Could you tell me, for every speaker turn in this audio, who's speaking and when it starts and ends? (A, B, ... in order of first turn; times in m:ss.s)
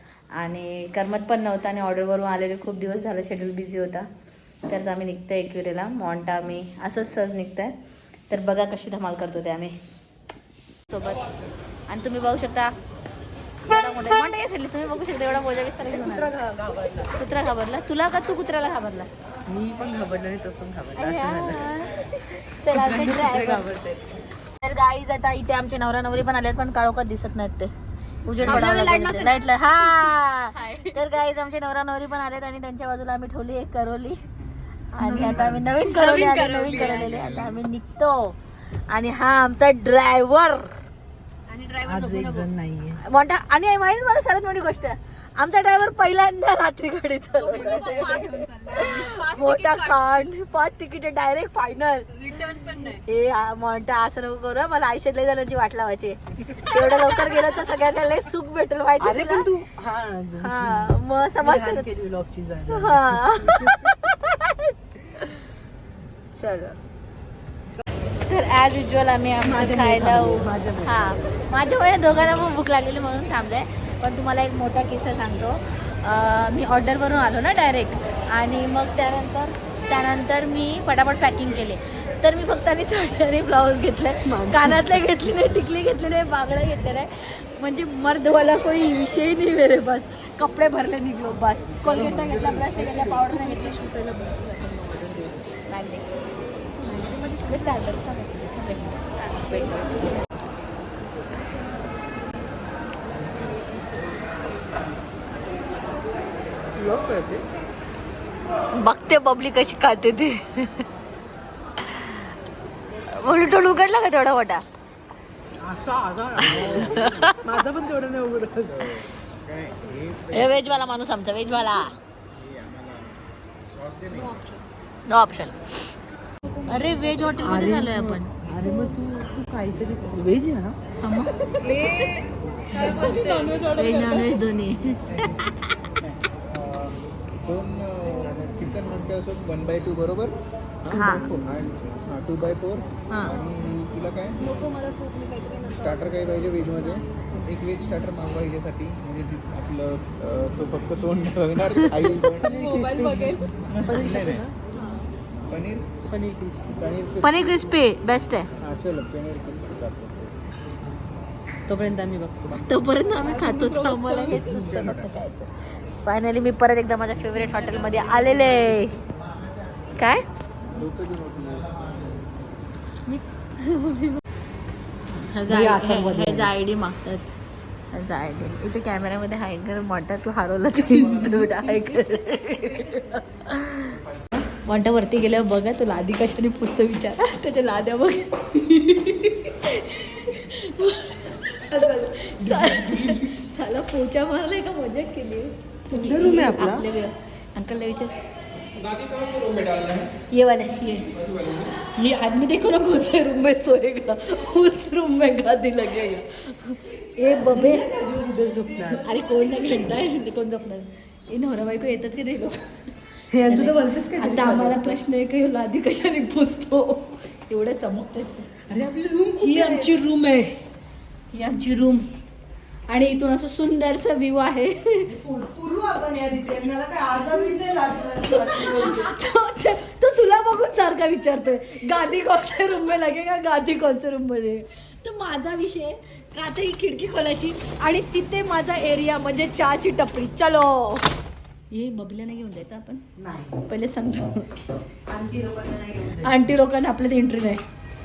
0:00.4-0:04.1 A
0:04.6-0:07.7 A
0:08.3-0:09.7 A
0:10.9-0:11.3 A
0:11.9-0:12.7 A
0:13.6-0:16.3 A
0:15.9-0:17.2 B
0:17.1-0:19.1 A
0:19.5-0:21.7 B
0:21.0-0:21.9 A
0:22.5-0:23.7 A
0:22.7-0:24.1 B
0:24.6-0:27.7 A
0:28.3-0:34.2 A
0:28.4-0:31.0 C
0:28.4-0:28.7 B
0:34.9-0:38.4 A
0:35.0-0:35.6 B
0:35.2-0:35.6 D
0:35.8-0:37.4 C
0:37.0-0:37.6 D
0:38.9-0:40.7 A
0:41.5-0:42.5 C
0:41.8-0:43.0 B
0:43.0-0:52.1 A
0:47.4-0:50.3 C
0:47.6-0:48.3 B
0:52.1-0:53.0 C
0:52.9-0:59.5 A
0:59.0-1:03.9 B
1:00.4-1:01.9 A
1:02.7-1:05.4 A
1:06.3-1:06.8 A
1:08.3-1:33.8 A
1:09.4-1:11.2 B
1:24.3-1:25.0 B
1:31.8-1:35.5 B
1:35.7-1:36.1 A
1:36.9-1:37.5 B
1:36.9-1:40.3 A
1:46.8-1:47.4 B
1:48.8-1:50.8 A
1:51.8-1:52.2 A
1:53.1-1:54.6 A
1:55.6-1:59.1 B
1:56.4-1:57.4 A
1:56.5-1:57.2 D
1:58.8-2:00.9 D
2:00.3-2:01.9 A
2:02.3-2:04.5 D
2:04.1-2:04.6 C
2:05.1-2:05.9 A
2:06.7-2:08.3 A
2:07.4-2:10.8 B
2:11.0-2:11.7 A
2:11.6-2:14.3 C
2:12.7-2:13.2 B
2:12.8-2:15.3 A
2:16.0-2:24.5 D
2:20.9-2:21.3 A
2:24.4-2:26.2 C
2:25.8-2:32.7 D
2:31.6-2:32.3 A
2:32.4-2:34.5 B
2:32.4-2:33.5 C
2:33.7-2:34.5 D
2:34.7-2:35.1 C
2:35.5-2:36.0 D
2:36.1-2:36.8 B
2:36.7-2:37.6 D
2:37.2-2:38.5 A
2:38.6-2:40.4 D
2:41.7-2:42.6 B
2:42.5-2:45.5 A
2:43.0-2:44.6 C
2:44.3-2:45.1 D
2:46.0-2:49.0 A
2:47.4-2:48.5 C
2:50.0-2:50.2 A
2:50.7-2:52.2 D
2:53.1-2:54.2 C
2:55.1-2:57.3 A
2:55.5-2:56.5 B
2:57.9-3:04.0 A
3:00.9-3:01.9 B
3:04.6-3:08.4 A
3:08.6-3:09.4 B
3:09.5-3:18.1 A
3:11.5-3:13.4 B
3:15.9-3:16.9 B
3:18.7-3:20.1 D
3:20.3-3:21.1 A
3:21.1-3:21.8 D
3:22.0-3:27.9 A
3:27.2-3:29.4 B
3:28.9-3:32.8 A
3:33.3-3:35.0 B
3:33.4-3:38.5 A
3:38.7-3:40.0 B
3:39.4-3:40.6 A
3:41.3-3:42.0 A
3:42.9-3:45.1 A
3:45.1-3:49.2 B
3:48.3-4:01.1 A
4:01.7-4:03.0 A
4:03.2-4:03.6 B
4:03.7-4:04.5 A
4:05.1-4:06.5 B
4:06.2-4:07.6 A